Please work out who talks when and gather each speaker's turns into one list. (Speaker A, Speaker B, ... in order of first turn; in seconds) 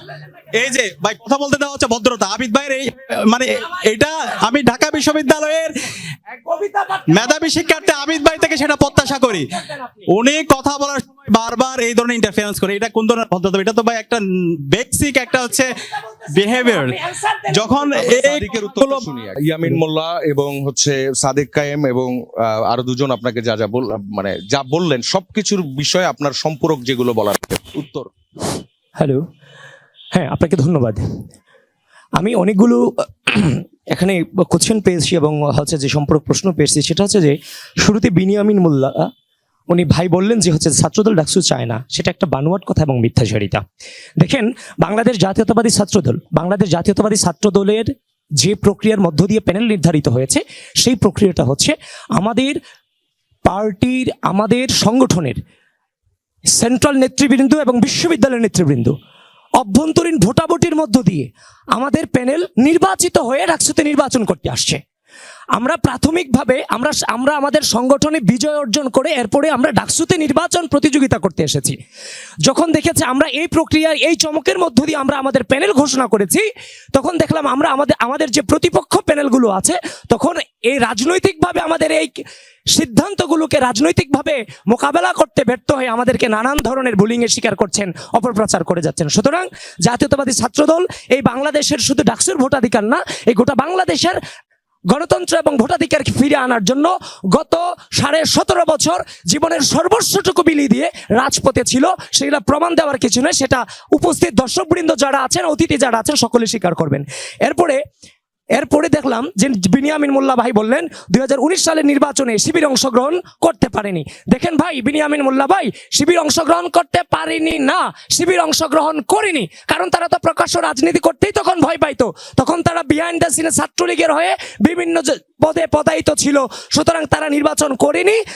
Speaker A: 0.1-0.4, 6.3-10.1, 16.0-19.1, 29.0-29.2, 30.1-31.0, 32.1-39.1, 39.7-43.6, 44.2-52.6, 53.4-55.4, 56.5-58.9, 59.6-64.8, 65.5-71.8, 72.5-82.2, 82.7-94.2, 94.9-107.8, 108.5-128.2
Speaker B: 0.5-5.7, 7.1-9.5, 10.1-15.7, 16.3-17.0, 17.5-19.0
Speaker C: 17.9-28.1